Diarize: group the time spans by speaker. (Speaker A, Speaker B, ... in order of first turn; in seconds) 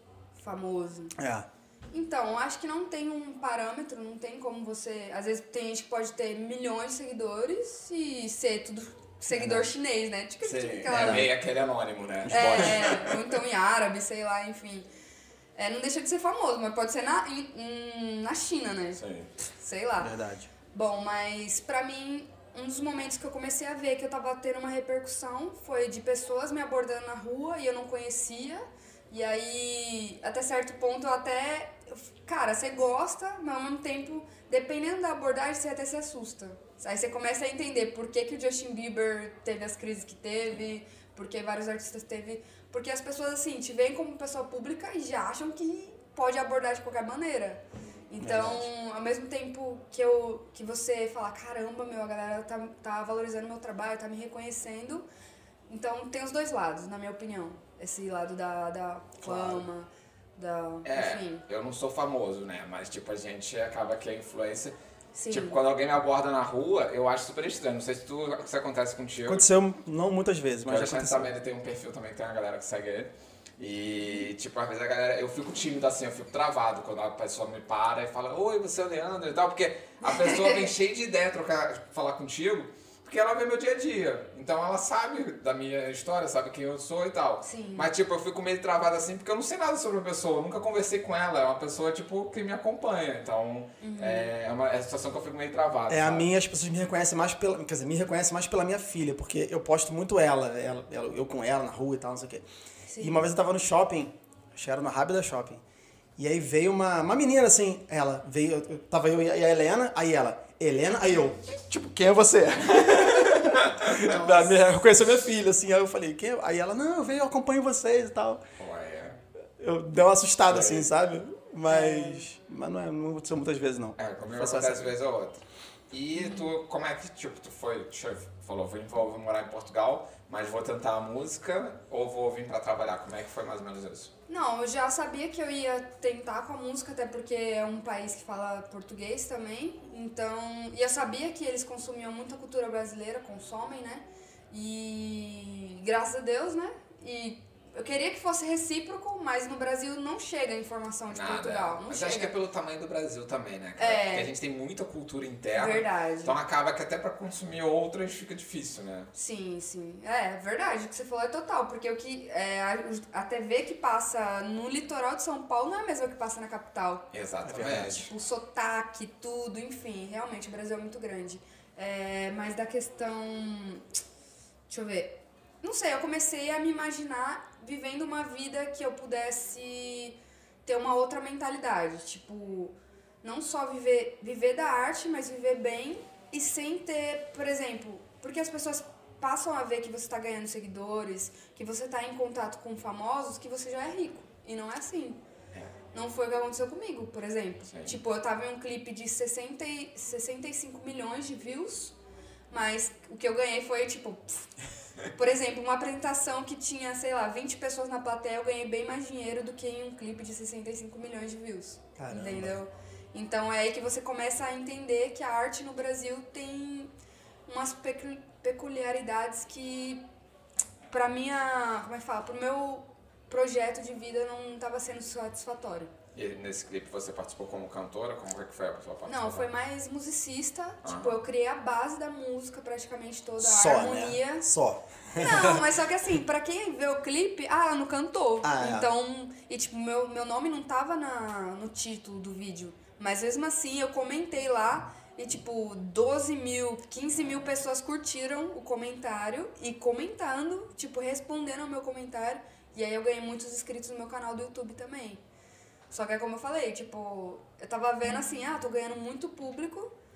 Speaker A: 0.4-1.1, 1.9-11.3, 12.3-14.9, 15.6-19.0, 19.6-20.1, 20.7-55.0, 55.7-61.4, 65.1-65.6, 80.0-80.7, 87.4-87.9, 93.8-94.3, 102.9-103.2, 113.9-114.5, 121.7-122.2, 126.2-126.5, 134.3-152.3, 153.8-154.3, 155.5-156.3, 159.1-167.0, 167.9-173.8, 174.7-195.2, 195.9-201.9, 202.5-204.5, 205.1-216.9, 217.5-220.0, 220.9-225.9, 229.1-234.5, 235.1-255.2, 255.9-259.9
Speaker B: 1.1-1.5, 9.3-9.7, 10.9-11.3, 12.2-12.7, 20.0-20.5, 48.2-48.7, 59.2-59.6, 69.2-71.3, 95.9-102.4, 103.0-105.6, 106.2-118.4, 119.6-124.9, 167.4-168.1, 212.0-212.6, 233.4-235.6, 238.4-238.9
Speaker C: 10.4-13.2, 18.9-19.3, 60.8-64.7, 65.3-69.5, 70.7-96.3, 113.6-113.9, 118.6-119.2, 120.5-120.9, 124.0-134.1, 151.1-159.1, 167.1-168.1, 197.7-198.0, 226.1-229.5, 230.8-231.2